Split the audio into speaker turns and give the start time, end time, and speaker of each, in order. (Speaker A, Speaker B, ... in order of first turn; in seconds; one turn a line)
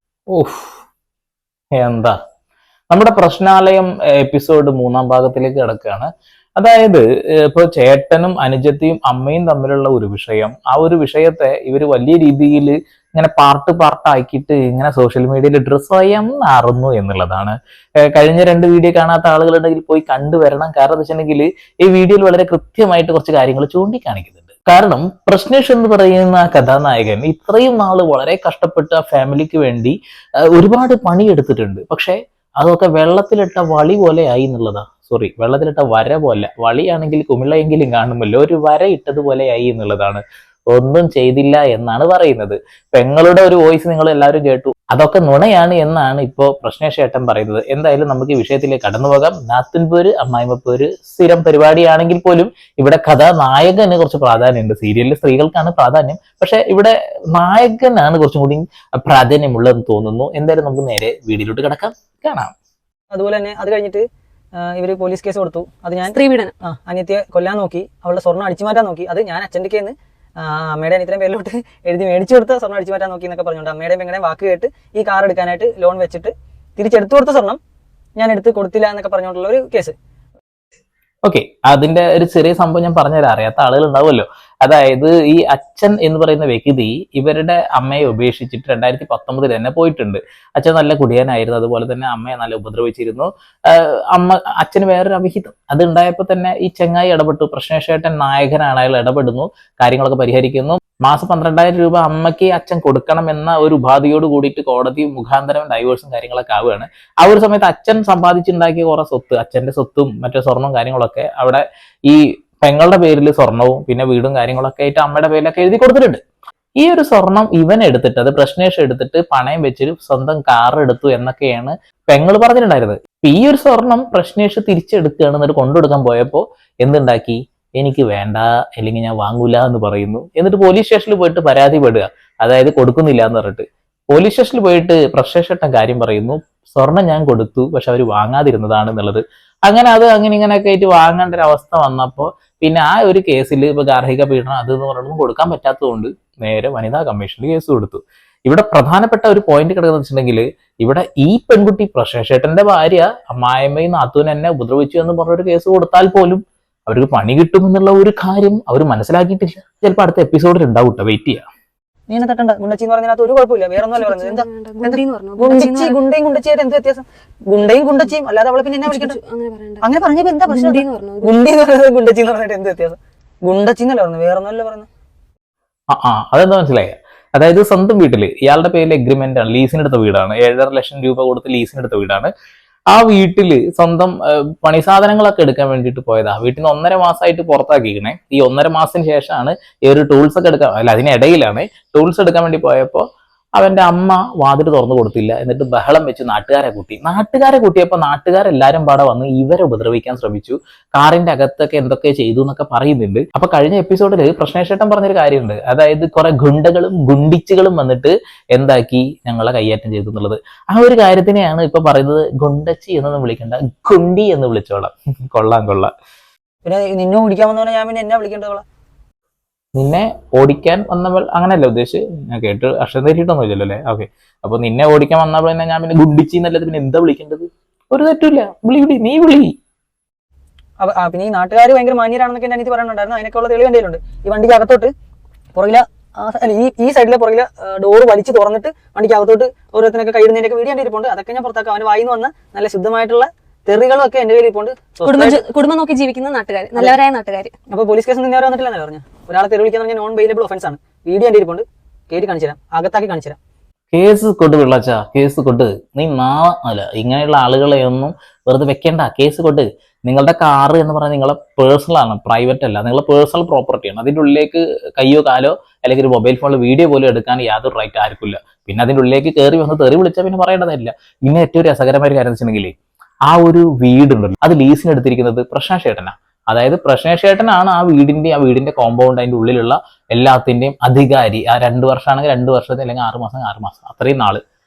Speaker A: 0.3-0.8
Speaker A: 1.8-2.1
Speaker A: 2.9-62.5
Speaker B: 63.1-64.0
Speaker B: 64.6-77.6
Speaker C: 66.0-66.5
Speaker B: 78.2-79.9
Speaker A: 81.2-116.2
Speaker A: 116.8-161.4
Speaker B: 162.1-169.2
Speaker C: 163.9-165.9
Speaker C: 168.8-169.8
Speaker B: 169.8-174.9
Speaker C: 170.5-171.3
Speaker A: 175.9-182.3
Speaker A: 182.9-193.0
Speaker A: 193.6-215.9
Speaker B: 216.6-218.6
Speaker A: 219.8-229.5
Speaker B: 230.8-234.9
Speaker B: 235.5-245.4
Speaker C: 245.0-247.5
Speaker B: 247.7-253.4
Speaker A: 253.9-272.7
Speaker A: 273.3-284.4